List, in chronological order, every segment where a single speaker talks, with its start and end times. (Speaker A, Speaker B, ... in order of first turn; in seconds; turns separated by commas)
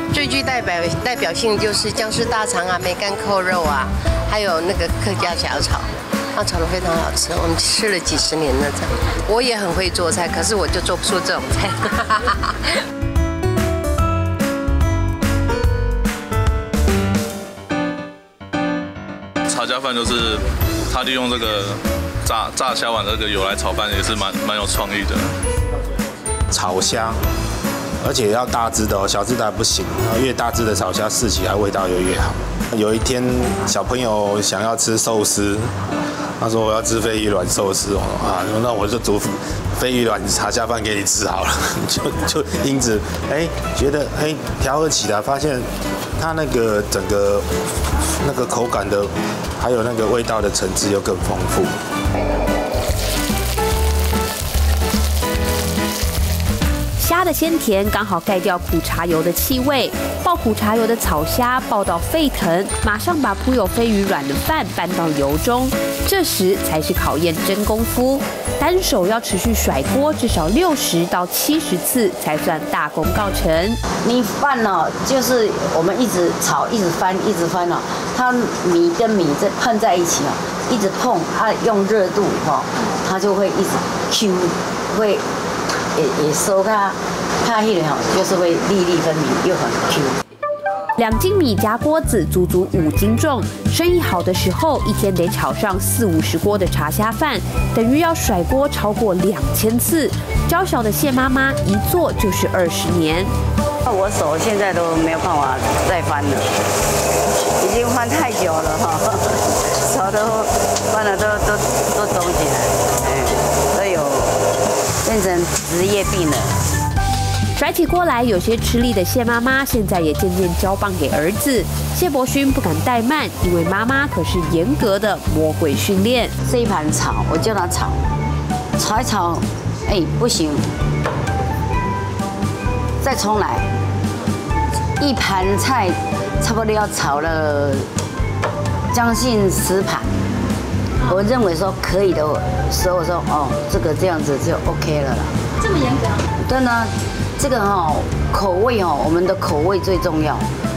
Speaker A: 0.1-12.8, Speaker B: 19.5-25.3, Speaker C: 26.5-27.2, Speaker C: 28.0-35.7, Speaker C: 36.4-45.7, Speaker C: 46.2-47.5, Speaker C: 48.2-51.7, Speaker D: 57.0-73.8, Speaker E: 74.0-85.2, Speaker E: 85.9-90.2, Speaker D: 91.0-103.3, Speaker E: 103.8-106.5, Speaker E: 107.6-114.4, Speaker E: 115.0-116.6, Speaker D: 117.5-126.3, Speaker E: 126.4-128.0, Speaker E: 128.8-130.7, Speaker E: 133.0-133.7, Speaker E: 135.0-137.9, Speaker E: 138.9-140.1, Speaker E: 141.0-145.3, Speaker E: 146.4-150.5